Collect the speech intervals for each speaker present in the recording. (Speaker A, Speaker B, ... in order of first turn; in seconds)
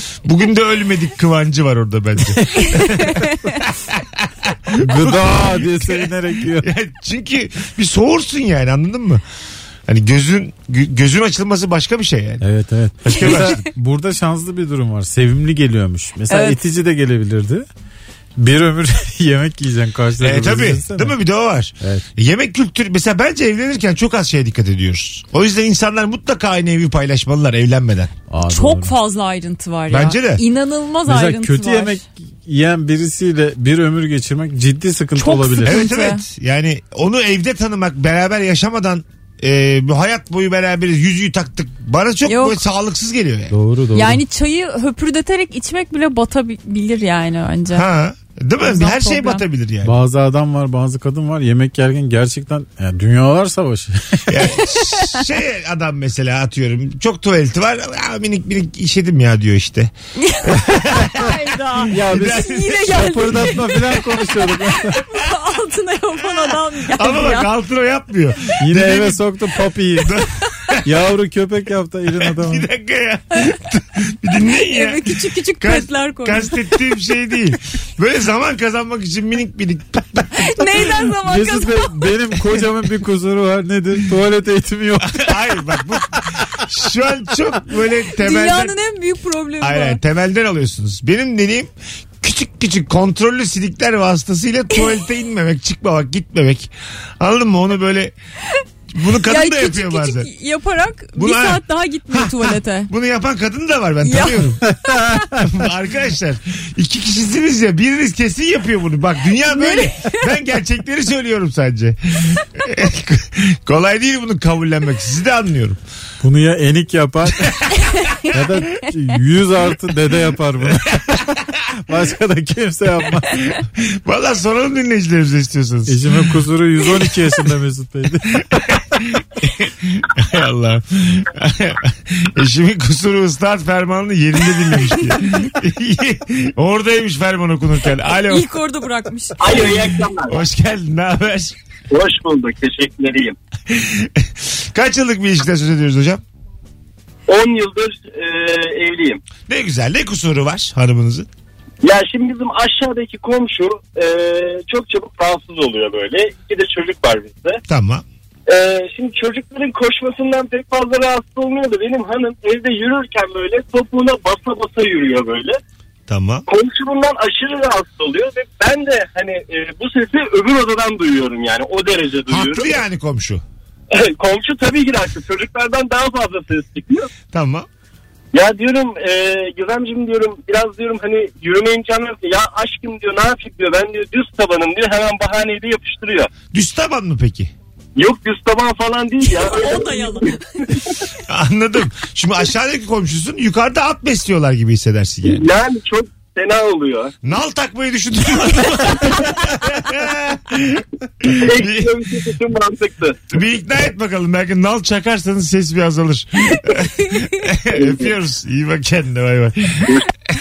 Speaker A: 0.2-9.2, 9.9-12.4, 13.0-13.6, 20.2-28.1, 29.9-30.4, 35.6-43.5, 47.7-49.9, 54.3-59.9, 60.4-61.4, 62.0-62.7, 67.0-69.3, 70.0-70.8, 72.1-80.8, 85.1-88.7, 89.6-98.1, 98.9-100.3, 101.2-104.6, 105.4-115.8, 117.4-117.8, 123.8-126.3, 128.7-138.5, 139.4-141.6, 143.7-146.2, 149.5-151.3, 157.7-158.0, 166.1-166.4, 172.3-173.4, 177.3-177.7, 186.5-187.5, 191.3-195.4, 197.2-202.2, 203.3-210.0
Speaker B: 2.9-3.4, 16.3-16.6, 28.5-32.0, 35.2-36.2, 42.2-42.6, 43.9-47.9, 48.6-49.4, 54.7-55.2, 60.2-67.5, 74.5-76.6, 80.4-81.9, 88.2-90.0, 99.2-102.9, 104.0-104.4, 109.5-110.2, 117.8-118.2, 138.2-139.8, 189.2-190.4
Speaker C: 4.8-6.7, 12.4-17.6, 18.4-21.2, 28.3-28.9, 31.1-35.8, 43.5-44.2, 49.8-54.3, 61.9-65.0, 68.6-70.2, 70.8-72.7, 81.2-85.4, 104.6-105.4, 116.2-117.6, 118.3-123.4, 125.9-128.6
Speaker D: 139.4-140.4, 141.9-143.3, 147.3-149.2, 151.8-157.6, 158.5-165.6, 166.5-172.7, 173.9-177.1, 178.3-186.3, 187.9-190.4, 195.2-197.1, 201.3-203.3, 207.8-208.1